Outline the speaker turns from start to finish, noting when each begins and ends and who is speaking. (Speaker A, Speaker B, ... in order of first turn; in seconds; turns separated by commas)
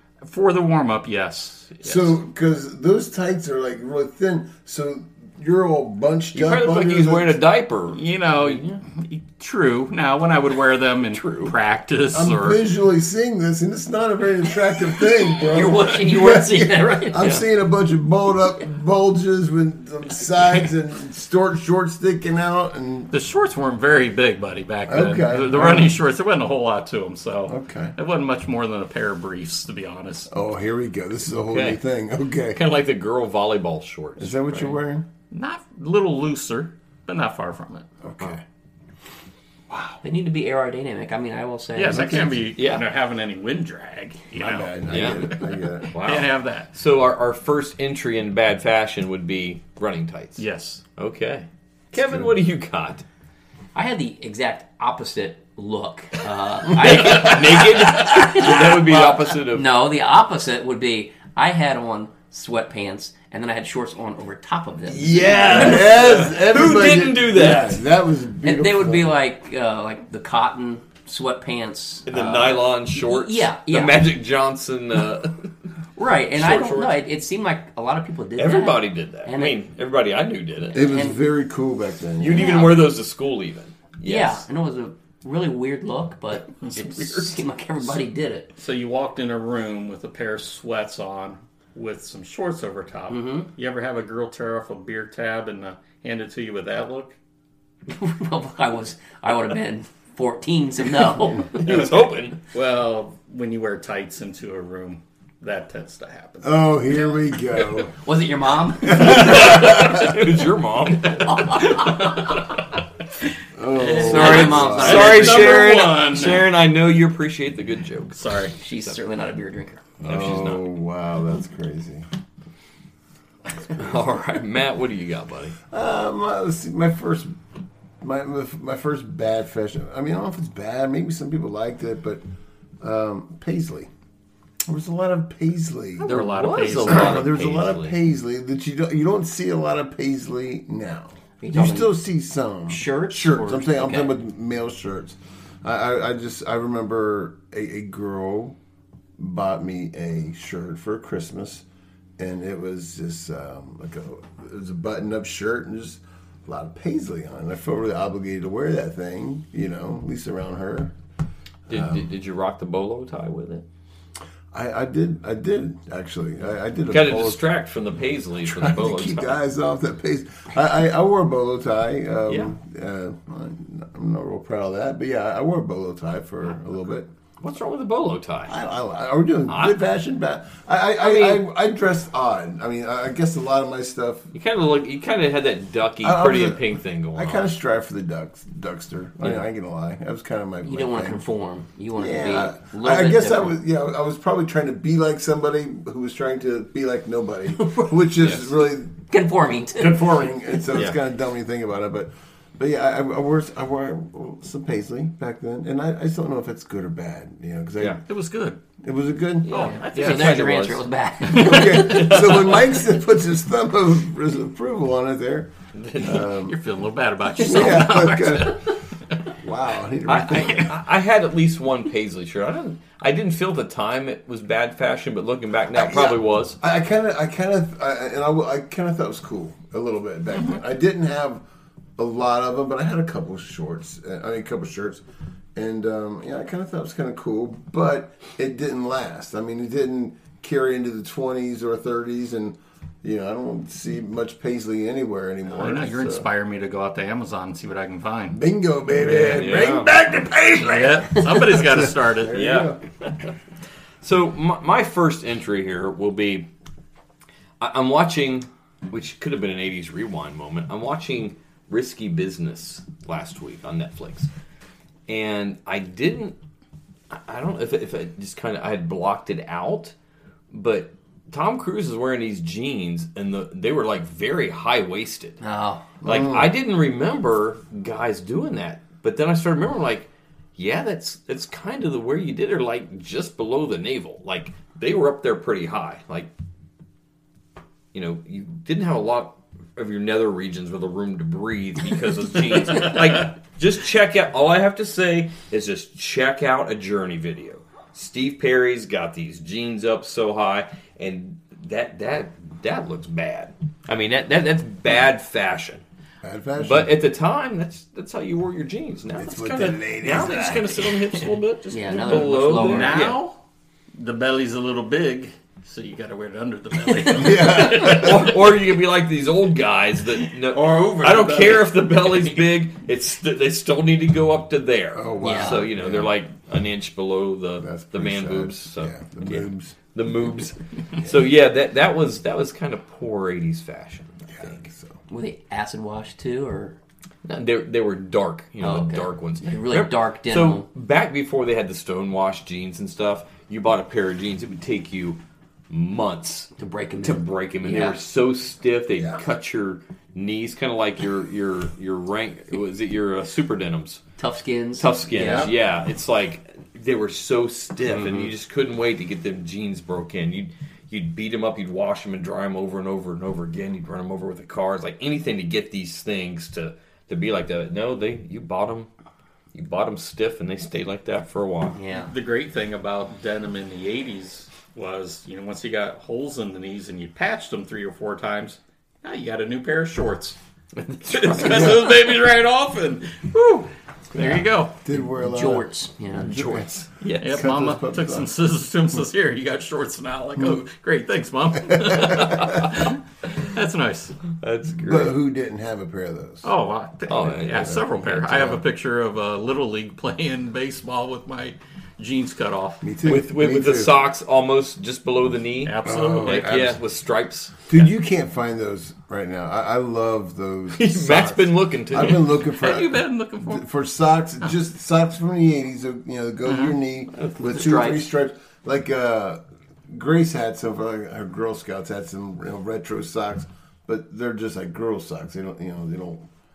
Speaker A: 0.2-2.1, Speaker B: 1.8-7.4, Speaker C: 6.3-8.8, Speaker A: 7.9-12.6, Speaker C: 11.1-11.5, Speaker B: 12.1-23.1, Speaker D: 15.3-17.3, Speaker A: 23.1-30.3, Speaker B: 24.9-26.0, Speaker B: 27.4-27.9, Speaker B: 30.3-32.6, Speaker C: 31.5-31.8, Speaker C: 32.5-34.8, Speaker B: 34.2-35.1, Speaker A: 35.3-37.9, Speaker B: 38.0-38.4, Speaker B: 39.7-40.0, Speaker D: 40.0-42.3, Speaker A: 41.7-45.4, Speaker B: 41.9-42.4, Speaker C: 42.5-42.9, Speaker B: 44.3-45.9, Speaker C: 44.9-45.3, Speaker C: 45.9-50.4, Speaker A: 46.0-46.7, Speaker A: 50.4-50.8, Speaker C: 51.0-53.0, Speaker B: 52.0-52.3, Speaker D: 53.7-66.1, Speaker C: 56.7-59.7, Speaker C: 64.9-67.8, Speaker B: 65.3-69.2, Speaker D: 68.4-74.0, Speaker C: 72.0-75.5, Speaker D: 76.0-79.6, Speaker C: 76.3-77.0, Speaker C: 78.4-80.8, Speaker D: 80.7-81.2, Speaker B: 80.7-82.6, Speaker C: 82.2-84.4, Speaker D: 82.3-82.9, Speaker D: 84.0-88.5, Speaker C: 86.8-87.3, Speaker A: 88.6-97.2, Speaker D: 93.1-93.5, Speaker D: 97.9-101.8, Speaker C: 101.5-102.4, Speaker A: 102.5-106.5, Speaker B: 106.4-107.9, Speaker D: 108.0-109.6, Speaker C: 108.9-112.4, Speaker B: 108.9-110.1, Speaker D: 111.2-112.2, Speaker B: 113.5-115.2, Speaker A: 113.8-116.5, Speaker D: 113.9-115.6, Speaker C: 113.9-118.9, Speaker A: 118.2-118.5, Speaker D: 118.6-119.8, Speaker B: 120.0-122.0, Speaker C: 120.0-120.6, Speaker C: 123.7-125.6, Speaker B: 125.7-127.4, Speaker B: 128.0-132.2, Speaker B: 132.8-133.9, Speaker B: 134.7-136.2, Speaker A: 136.0-137.3, Speaker C: 136.1-137.9, Speaker B: 136.8-148.6, Speaker D: 141.4-141.9, Speaker D: 142.7-144.1, Speaker B: 149.2-151.6, Speaker B: 152.2-160.9, Speaker B: 161.7-162.1, Speaker C: 161.7-163.6, Speaker B: 164.5-167.5, Speaker C: 166.9-169.4, Speaker B: 168.4-177.1, Speaker C: 172.3-172.5, Speaker C: 177.4-178.6, Speaker B: 178.5-184.3, Speaker C: 179.5-179.8, Speaker C: 181.0-181.4, Speaker C: 184.3-187.5, Speaker B: 186.0-191.2, Speaker D: 190.6-193.6, Speaker B: 191.9-199.0, Speaker D: 197.6-197.8, Speaker C: 198.2-198.5, Speaker D: 199.1-200.1, Speaker B: 199.8-208.0, Speaker A: 208.1-208.6, Speaker B: 208.8-209.5, Speaker C: 209.4-210.8, Speaker D: 209.5-212.1, Speaker A: 209.5-210.3, Speaker B: 211.2-216.6, Speaker C: 211.7-212.6, Speaker C: 215.7-216.3, Speaker A: 216.4-218.8, Speaker B: 217.4-218.7, Speaker B: 219.4-220.7, Speaker C: 220.1-226.6, Speaker B: 225.7-231.4, Speaker B: 232.0-235.0, Speaker B: 235.5-246.3, Speaker A: 245.5-248.4, Speaker B: 248.3-252.8, Speaker A: 249.0-249.4, Speaker C: 249.2-249.9, Speaker A: 250.6-252.5, Speaker C: 252.3-253.3, Speaker C: 254.0-256.5, Speaker C: 257.6-264.3, Speaker C: 265.1-266.4, Speaker C: 267.1-269.9, Speaker C: 270.5-275.4, Speaker D: 275.4-275.9, Speaker B: 276.0-276.5, Speaker C: 276.0-286.3, Speaker C: 287.9-305.8, Speaker B: 306.2-306.9, Speaker C: 306.6-313.2, Speaker B: 309.2-310.9, Speaker D: 311.7-313.0, Speaker A: 312.0-313.4, Speaker A: 313.9-318.3, Speaker B: 317.1-318.3, Speaker C: 317.4-334.6, Speaker A: 320.5-321.7, Speaker B: 324.9-326.1, Speaker D: 325.2-325.6, Speaker B: 327.6-329.8, Speaker B: 334.3-335.0, Speaker D: 335.1-336.8, Speaker C: 337.2-345.2, Speaker D: 338.6-340.7, Speaker C: 345.7-346.5, Speaker D: 346.6-348.0, Speaker C: 347.0-354.0, Speaker D: 354.2-355.5, Speaker C: 354.8-368.9, Speaker B: 355.2-355.5, Speaker D: 357.9-358.3, Speaker C: 369.5-371.8, Speaker D: 371.7-372.1, Speaker A: 372.0-380.4, Speaker C: 380.8-381.9, Speaker A: 381.1-384.8, Speaker B: 381.5-381.8, Speaker B: 384.2-388.3, Speaker D: 384.9-386.3, Speaker C: 386.2-387.5, Speaker A: 387.2-394.2, Speaker B: 391.7-392.5, Speaker C: 394.4-395.1, Speaker B: 394.8-396.5, Speaker A: 396.4-402.8, Speaker C: 397.1-398.0, Speaker B: 397.1-398.6, Speaker B: 402.8-403.9, Speaker C: 403.0-407.9, Speaker A: 405.6-406.6, Speaker B: 405.8-406.8, Speaker B: 407.7-426.3, Speaker C: 410.7-412.3, Speaker A: 412.6-413.6, Speaker A: 416.5-416.7, Speaker D: 417.4-418.0